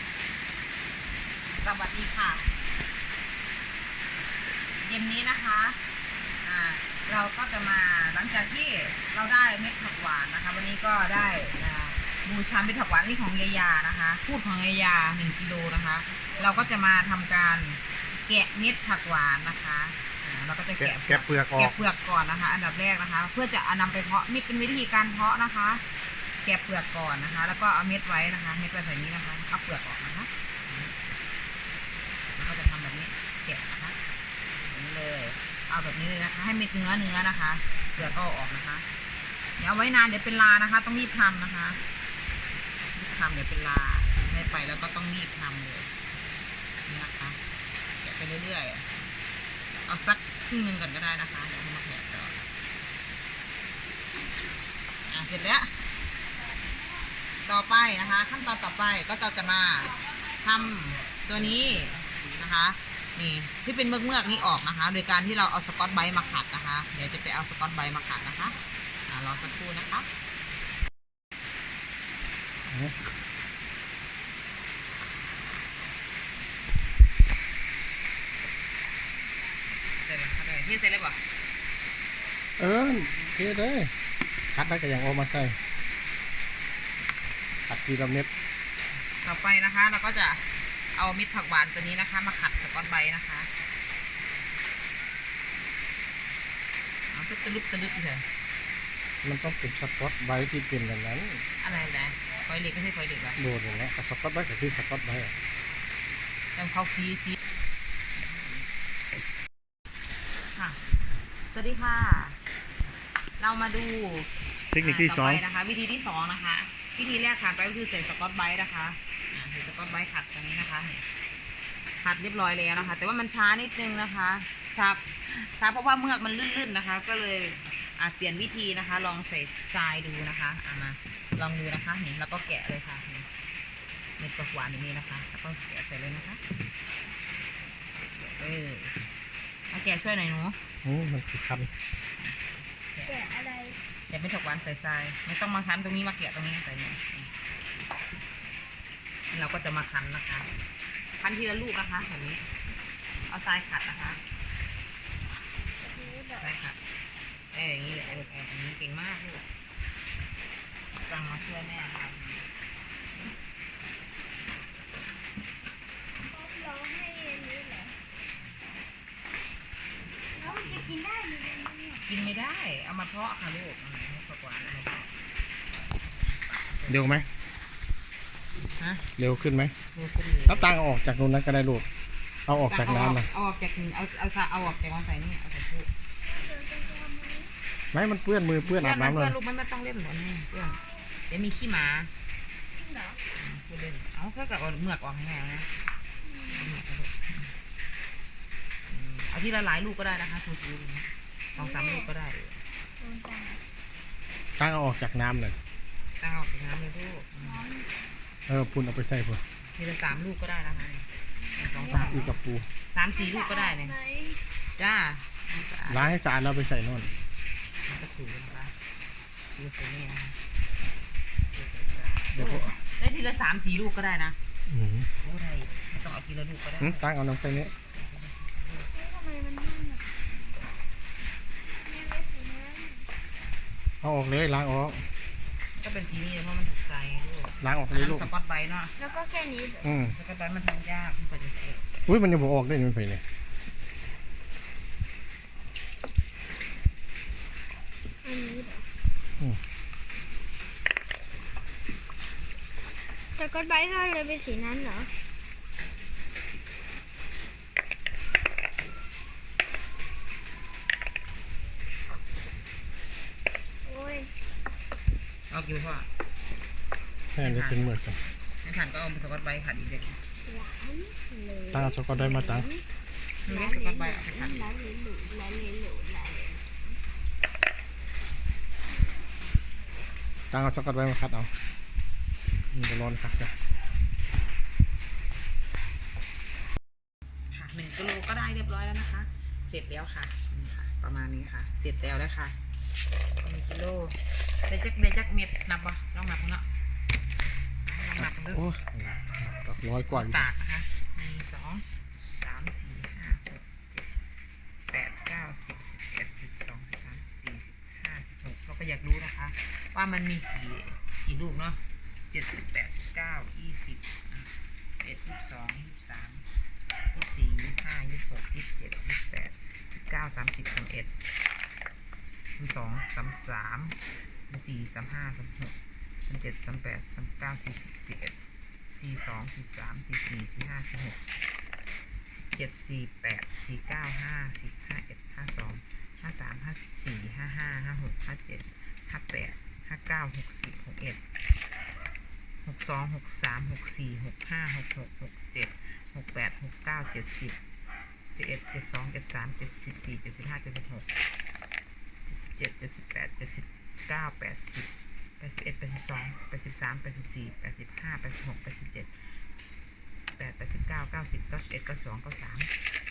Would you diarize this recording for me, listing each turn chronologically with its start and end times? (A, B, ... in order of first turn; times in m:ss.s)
0:01.4-0:02.5 A
0:04.8-0:05.8 A
0:06.4-0:25.8 A
0:20.8-0:21.8 B
0:26.4-0:30.9 A
0:32.3-0:34.0 A
0:34.5-0:38.8 A
0:39.6-0:41.8 A
0:42.9-0:45.9 A
0:46.8-0:47.4 A
0:48.0-0:48.9 A
0:49.8-0:52.4 A
0:55.1-0:55.7 A
0:57.4-1:10.1 A
1:12.7-1:12.9 B
1:20.0-1:21.2 A
1:22.6-1:23.9 B
1:24.5-1:25.6 B
1:27.7-1:28.3 B
1:29.2-1:33.5 A
1:37.1-1:38.2 A
1:39.2-1:41.4 B
1:41.6-1:43.5 A
1:43.4-1:45.3 B
1:46.5-1:47.4 A
1:48.2-1:48.7 A
1:50.5-1:50.8 A
1:51.4-1:52.4 A
1:53.4-2:01.0 A
1:54.7-1:55.4 B
2:02.0-2:13.3 A
2:14.2-2:16.4 A
2:18.1-2:19.0 A
2:19.7-2:20.6 A
2:20.8-2:21.7 B
2:22.2-2:23.3 A
2:23.0-2:23.8 C
2:24.1-2:27.3 A
2:29.3-2:30.5 A
2:31.2-2:32.5 A
2:33.3-2:34.2 A
2:35.8-2:36.5 C
2:36.4-2:36.8 A
2:37.5-2:39.4 A
2:41.0-2:42.5 A
2:46.3-2:47.9 C
2:50.3-2:52.2 C
2:50.4-2:51.0 A
2:52.0-2:55.1 A
2:56.0-2:57.3 A
2:56.9-2:57.2 B
2:58.8-2:59.1 A
2:59.2-2:59.7 B
2:59.9-3:00.7 A
3:00.4-3:01.9 B
3:02.5-3:03.3 B
3:02.5-3:05.9 A
3:06.2-3:07.5 C
3:07.9-3:09.4 B
3:08.6-3:10.8 A
3:10.6-3:11.2 C
3:11.3-3:12.1 A
3:12.7-3:13.2 C
3:13.3-3:15.7 A
3:16.2-3:16.7 C
3:16.4-3:17.5 A
3:18.9-3:22.6 A
3:21.6-3:22.1 C
3:23.0-3:23.6 C
3:24.6-3:25.6 B
3:26.2-3:27.6 A
3:27.4-3:27.9 C
3:28.5-3:29.4 B
3:29.7-3:32.3 A
3:31.5-3:32.2 C
3:31.9-3:32.7 B
3:32.9-3:34.0 A
3:33.2-3:34.4 C
3:34.8-3:36.2 A
3:35.9-3:37.1 B
3:37.8-3:38.7 A
3:39.5-3:40.4 A
3:41.5-3:44.4 A
3:42.3-3:42.8 B
3:44.7-3:45.1 B
3:45.2-3:47.1 A
3:46.8-3:47.7 B
3:47.7-3:48.9 A
3:48.9-3:50.3 C
3:51.8-3:53.0 C
3:54.0-3:55.0 B
3:55.8-3:58.9 A
3:57.6-3:58.3 B
3:59.0-3:59.9 C
3:59.8-4:00.1 B
3:59.8-4:01.8 A
4:02.0-4:03.2 B
4:08.2-4:08.8 C
4:13.3-4:15.1 C
4:23.8-4:24.3 C
4:25.5-4:26.1 A
4:27.3-4:28.2 B
4:27.4-4:28.0 A
4:28.6-4:30.2 A
4:30.4-4:32.8 C
4:31.7-4:32.7 B
4:33.4-4:34.7 A
4:33.4-4:37.0 C
4:40.5-4:41.5 B
4:42.7-4:43.5 B
4:47.5-4:52.6 A
4:53.4-4:56.6 A
4:57.8-4:58.6 A
4:58.2-5:00.5 B
5:00.1-5:01.8 A
5:02.4-5:04.1 A
5:04.9-5:16.4 A
5:17.1-5:21.2 A
5:22.6-5:24.0 A
5:24.5-5:31.2 A
5:32.3-5:41.2 A
5:42.6-5:47.6 A
5:48.3-5:51.1 A
5:52.3-5:59.2 A
6:00.2-6:02.7 A